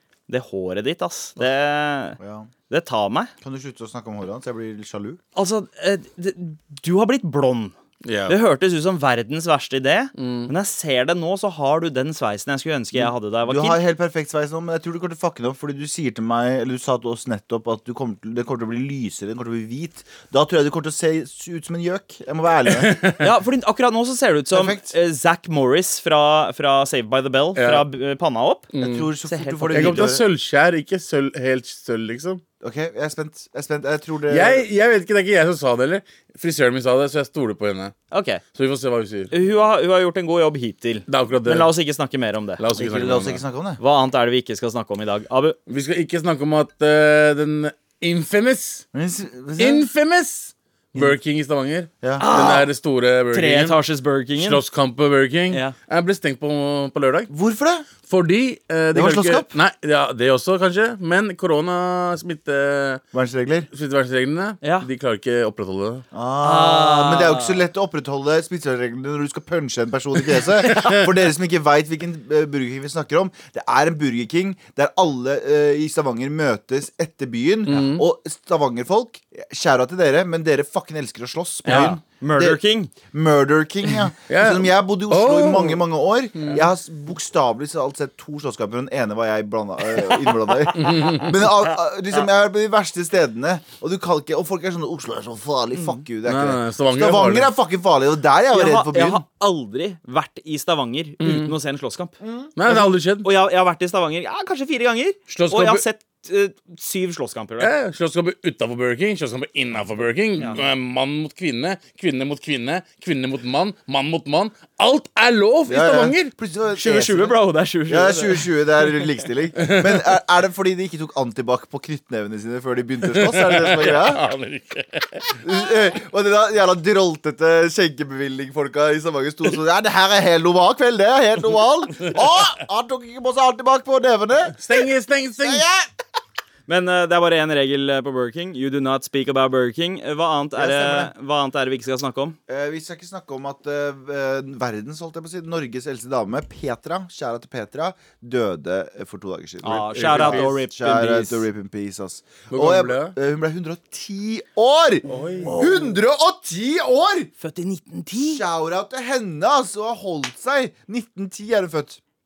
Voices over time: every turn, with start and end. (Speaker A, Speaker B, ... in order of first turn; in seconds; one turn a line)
Speaker A: 0.3-2.2
Speaker B: 2.2-2.5
Speaker A: 2.7-3.3
Speaker B: 3.4-5.2
Speaker A: 5.4-7.7
Speaker C: 8.0-8.4
Speaker A: 8.3-13.8
Speaker C: 10.2-10.5
Speaker B: 13.4-23.0
Speaker C: 22.7-23.3
Speaker A: 23.2-30.1
Speaker B: 24.5-24.9
Speaker C: 27.6-27.8
Speaker C: 28.7-29.1
Speaker B: 28.8-30.2
Speaker C: 29.7-32.4
Speaker B: 32.6-34.6
Speaker C: 34.3-38.0
Speaker A: 38.1-38.4
Speaker C: 38.5-39.3
Speaker A: 39.3-42.6
Speaker C: 41.1-41.7
Speaker C: 42.6-43.4
Speaker B: 42.8-43.8
Speaker A: 43.8-45.6
Speaker C: 45.7-48.9
Speaker B: 48.9-49.9
Speaker C: 49.6-53.8
Speaker B: 52.0-52.3
Speaker A: 52.2-52.7
Speaker A: 53.3-54.6
Speaker C: 54.4-57.3
Speaker B: 57.3-57.9
Speaker C: 58.1-63.0
Speaker B: 58.9-59.5
Speaker B: 63.1-63.7
Speaker C: 63.7-66.0
Speaker A: 64.6-64.9
Speaker B: 66.1-99.2
Speaker A: 66.4-67.6
Speaker C: 70.4-71.1
Speaker C: 77.7-78.0
Speaker C: 81.7-82.0
Speaker A: 81.7-82.9
Speaker C: 84.3-85.8
Speaker C: 86.4-86.7
Speaker A: 90.5-91.2
Speaker C: 90.8-91.3
Speaker A: 95.7-96.0
Speaker C: 96.2-97.5
Speaker A: 98.5-107.7
Speaker C: 101.2-101.5
Speaker B: 102.2-102.5
Speaker C: 102.5-103.3
Speaker C: 105.3-105.8
Speaker C: 107.6-116.3
Speaker B: 115.7-124.2
Speaker A: 116.7-119.1
Speaker C: 119.6-120.1
Speaker C: 123.0-125.4
Speaker B: 125.4-134.6
Speaker C: 134.6-135.6
Speaker B: 135.4-135.9
Speaker A: 136.7-142.4
Speaker B: 140.6-141.1
Speaker B: 142.5-157.3
Speaker A: 149.6-151.4
Speaker C: 149.9-150.6
Speaker C: 152.5-153.1
Speaker C: 155.1-155.6
Speaker A: 155.4-155.9
Speaker A: 157.4-158.4
Speaker B: 158.3-162.0